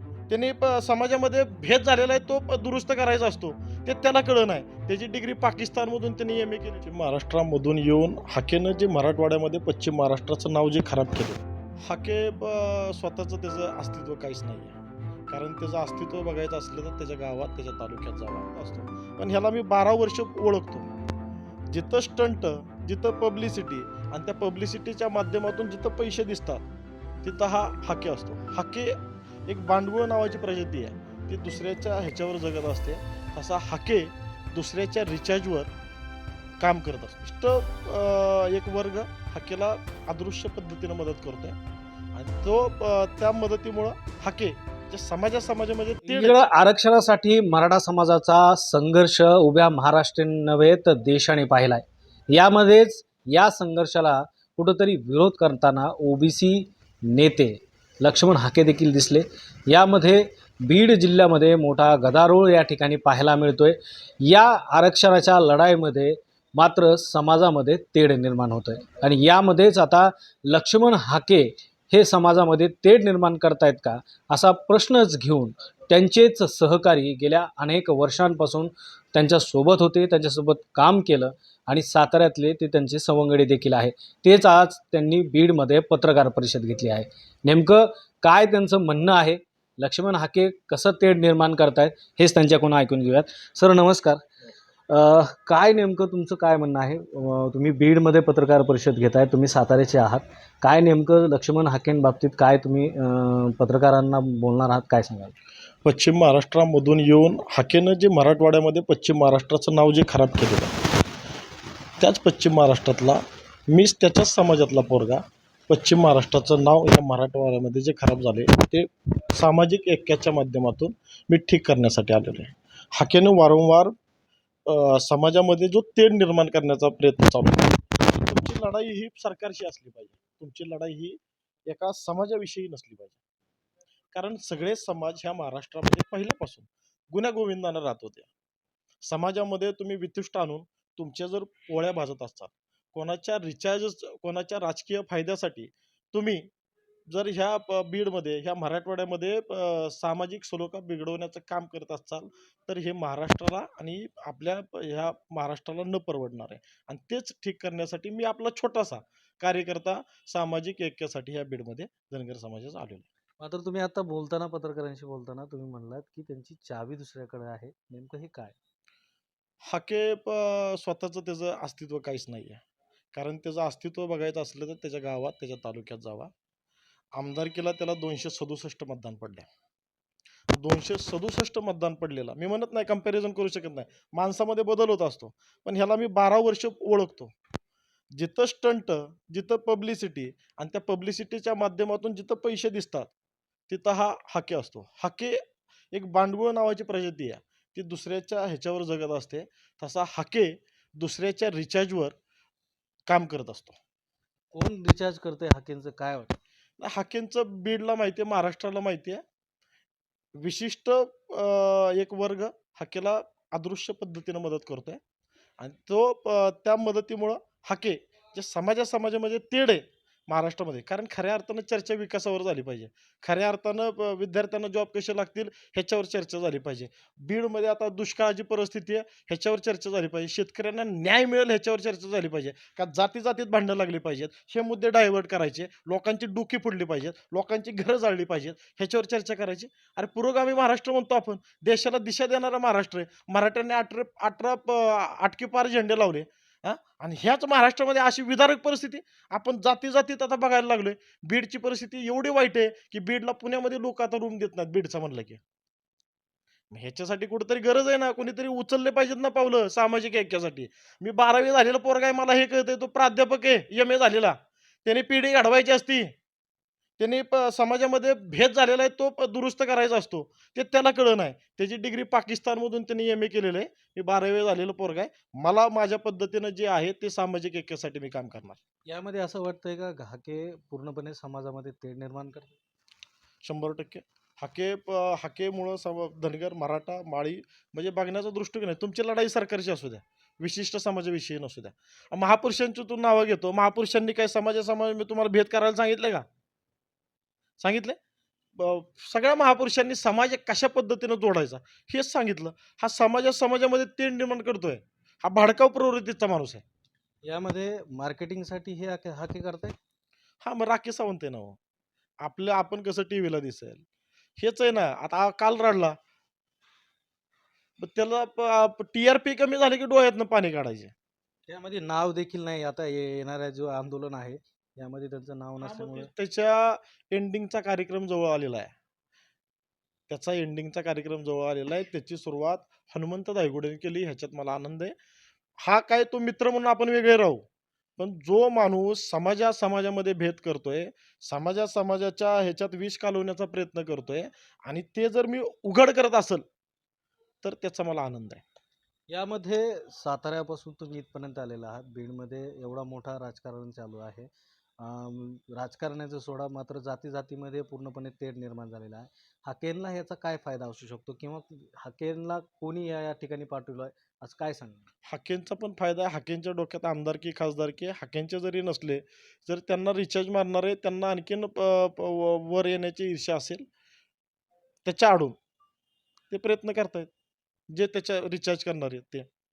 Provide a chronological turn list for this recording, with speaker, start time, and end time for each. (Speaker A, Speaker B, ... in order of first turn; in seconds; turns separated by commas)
Speaker A: 0.3-14.8, Speaker A: 15.3-20.9, Speaker A: 21.7-26.6, Speaker A: 27.2-29.0, Speaker A: 29.5-35.7, Speaker A: 36.6-41.6, Speaker A: 42.1-46.4, Speaker B: 46.1-94.2, Speaker B: 94.9-105.3, Speaker A: 105.8-110.8, Speaker A: 112.0-123.9, Speaker A: 124.7-133.2, Speaker A: 134.1-138.3, Speaker A: 139.0-146.5, Speaker A: 147.1-163.1, Speaker B: 163.4-168.6, Speaker A: 169.7-172.6, Speaker A: 173.1-176.3, Speaker A: 177.2-179.5, Speaker A: 180.5-187.3, Speaker A: 188.2-193.1, Speaker A: 193.7-195.4, Speaker A: 195.9-202.1, Speaker A: 203.1-203.8, Speaker B: 204.5-206.4, Speaker A: 206.8-209.2, Speaker A: 210.4-215.0, Speaker A: 215.6-255.4, Speaker A: 256.7-266.1, Speaker A: 267.0-278.6, Speaker B: 278.9-282.6, Speaker A: 283.4-296.2, Speaker A: 297.6-298.0, Speaker A: 298.6-306.6, Speaker B: 307.2-309.8, Speaker A: 310.4-311.6, Speaker A: 312.2-313.8, Speaker A: 314.4-316.0, Speaker A: 317.8-320.9, Speaker B: 321.5-326.1, Speaker A: 325.6-328.7, Speaker A: 330.1-334.9, Speaker A: 335.6-337.4, Speaker A: 338.0-346.4, Speaker A: 347.4-348.4, Speaker B: 349.1-364.9, Speaker A: 365.1-373.6, Speaker A: 374.8-375.4, Speaker A: 376.3-377.1, Speaker A: 377.7-379.3